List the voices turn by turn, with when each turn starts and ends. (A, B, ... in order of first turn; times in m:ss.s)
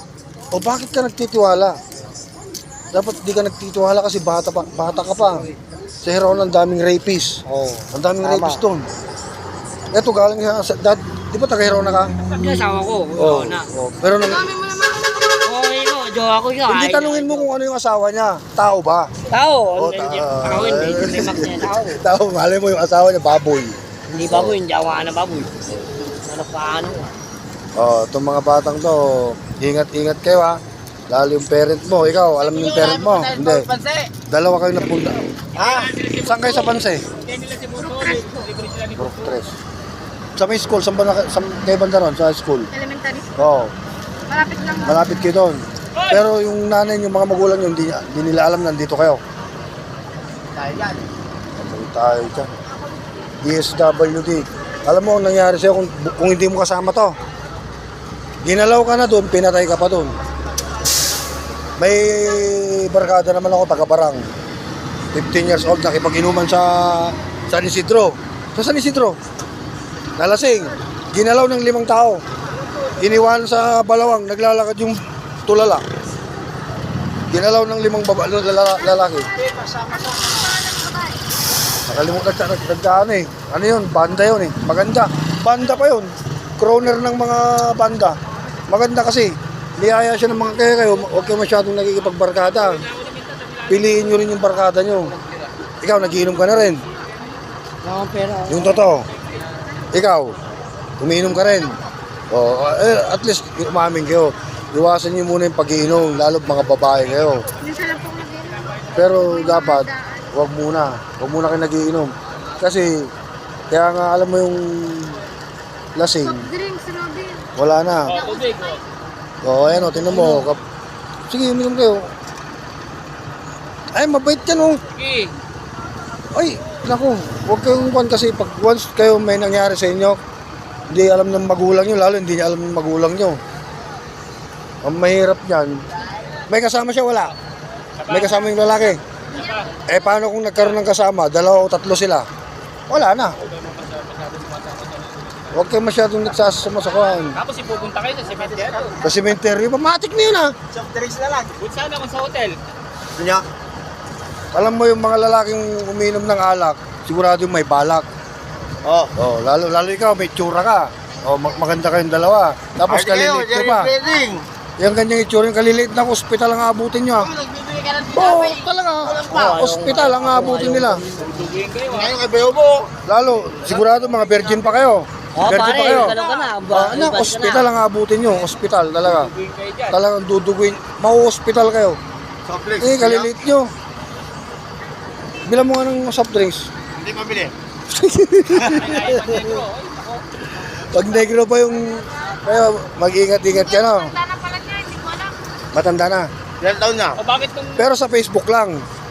0:00.5-0:01.8 A
0:02.9-0:05.4 A
0:06.0-0:07.4 A
0:07.5-0:08.6 B
0:07.9-0:08.8 A
0:09.9-0:12.1 A
0:12.3-0:13.7 B
0:13.2-0:14.5 A
0:14.2-0:15.5 C
0:15.4-0:17.5 B
0:16.7-0:19.1 A
0:19.3-0:22.0 B
0:19.8-0:24.6 A
0:24.1-0:25.5 B
0:26.2-0:27.1 B
0:27.8-0:33.7 A
0:32.3-0:34.1 D
0:34.3-0:35.2 A
0:35.6-0:35.9 D
0:35.6-0:39.4 E
0:36.2-0:37.1 A
0:38.0-0:38.3 C
0:39.0-0:39.6 A
0:40.4-0:42.7 A
0:42.7-0:43.3 C
0:43.4-0:43.7 A
0:44.3-0:45.0 C
0:44.9-0:49.2 A
0:45.9-0:46.3 E
0:50.5-0:51.1 D
0:51.6-0:52.5 A
0:53.4-0:57.2 A
0:58.4-1:00.2 A
1:01.8-1:04.2 A
1:05.1-1:09.2 A
1:10.2-1:12.2 A
1:13.0-1:15.8 A
1:17.3-1:19.3 A
1:18.8-1:21.2 C
1:21.9-1:28.2 A
1:28.7-1:32.8 A
1:32.5-1:35.5 E
1:33.7-1:35.2 A
1:35.8-1:36.8 A
1:37.8-1:38.8 B
1:38.5-1:39.1 A
1:39.3-1:39.6 E
1:39.9-1:40.4 A
1:41.0-1:41.8 A
1:42.3-1:47.5 A
1:47.1-1:47.5 E
1:47.6-1:50.3 C
1:48.6-1:49.1 E
1:48.9-1:53.1 A
1:53.7-1:55.2 A
1:56.0-1:56.5 A
1:56.2-1:57.5 C
1:57.6-1:58.2 A
1:58.0-1:58.8 E
1:58.1-1:58.8 C
1:59.4-2:00.6 A
1:59.9-2:00.4 B
2:01.3-2:02.1 A
2:04.0-2:04.8 A
2:05.0-2:05.3 E
2:06.3-2:10.2 A
2:10.9-2:13.4 A
2:14.8-2:15.8 A
2:16.5-2:17.3 A
2:18.0-2:18.5 E
2:18.1-2:19.0 A
2:19.3-2:19.7 E
2:19.3-2:20.0 C
2:19.8-2:22.3 A
2:22.9-2:23.4 A
2:23.4-2:25.6 E
2:25.5-2:27.4 A
2:27.2-2:29.0 E
2:28.3-2:29.0 D
2:29.0-2:30.5 A
2:30.7-2:31.6 D
2:31.6-2:32.6 E
2:33.2-2:33.5 D
2:34.5-2:38.0 A
2:38.8-2:39.1 D
2:39.2-2:43.9 A
2:42.9-2:44.4 D
2:44.8-2:47.3 A
2:47.2-2:49.6 D
2:48.1-2:51.0 A
2:49.3-2:51.3 B
2:51.2-2:52.2 E
2:51.8-2:52.9 D
2:53.0-2:59.3 A
2:53.4-2:54.8 E
2:55.3-2:57.7 B
2:55.5-2:56.4 E
2:59.0-3:00.0 E
2:59.9-3:02.0 A
3:02.5-3:03.3 D
3:02.8-3:03.7 A
3:05.5-3:06.7 A
3:06.9-3:07.5 D
3:07.9-3:09.5 A
3:08.6-3:10.2 E
3:10.9-3:14.2 A
3:13.5-3:15.6 C
3:15.7-3:16.3 A
3:16.6-3:17.2 D
3:17.2-3:17.8 E
3:17.8-3:18.8 A